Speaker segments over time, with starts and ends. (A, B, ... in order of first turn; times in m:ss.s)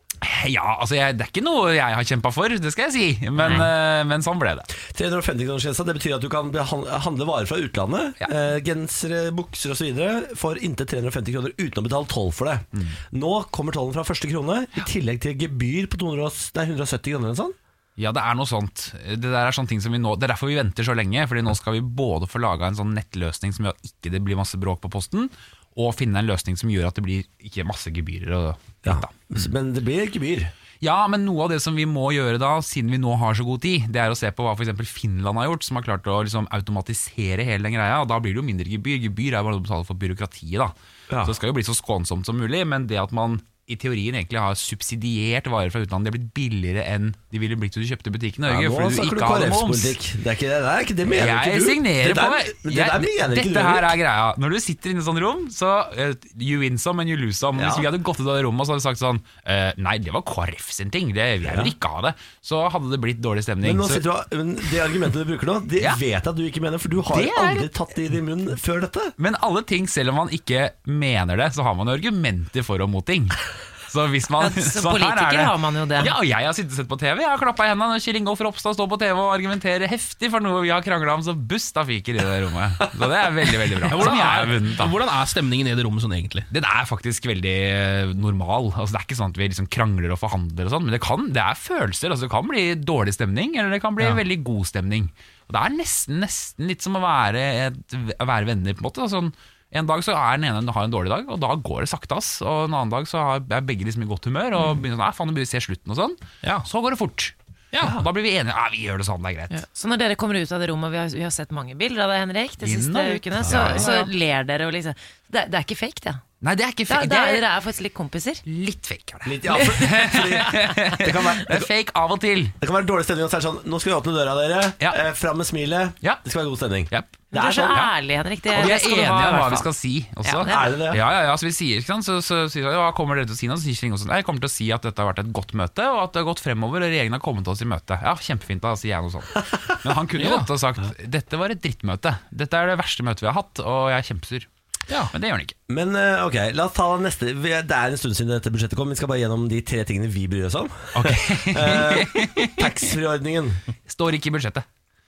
0:00.2-0:04.7 A
0:04.8-0:17.6 B
0:18.0-0:29.4 A
0:28.8-0:30.5 B
0:30.8-0:50.0 A
0:41.1-0:41.4 B
0:48.5-0:54.0 B
0:51.1-1:04.0 A
0:57.6-0:57.9 B
1:01.4-1:01.7 B
1:03.6-1:09.2 B
1:07.1-1:07.7 A
1:09.2-1:25.0 A
1:14.4-1:16.1 C
1:23.9-1:26.5 D
1:26.5-1:49.6 A
1:47.7-1:48.0 D
1:49.5-1:56.2 C
1:52.6-1:54.1 A
1:53.4-1:53.9 B
1:56.4-1:57.4 A
1:56.9-1:58.4 C
1:58.5-2:02.6 A
1:59.2-2:01.7 B
2:02.6-2:07.8 B
2:06.9-2:07.9 A
2:07.3-2:09.7 C
2:08.5-2:24.5 A
2:10.2-2:10.7 C
2:10.5-2:11.1 B
2:20.2-2:20.5 D
2:25.1-2:25.6 A
2:25.7-2:33.6 B
2:31.0-2:33.0 A
2:33.9-2:34.6 A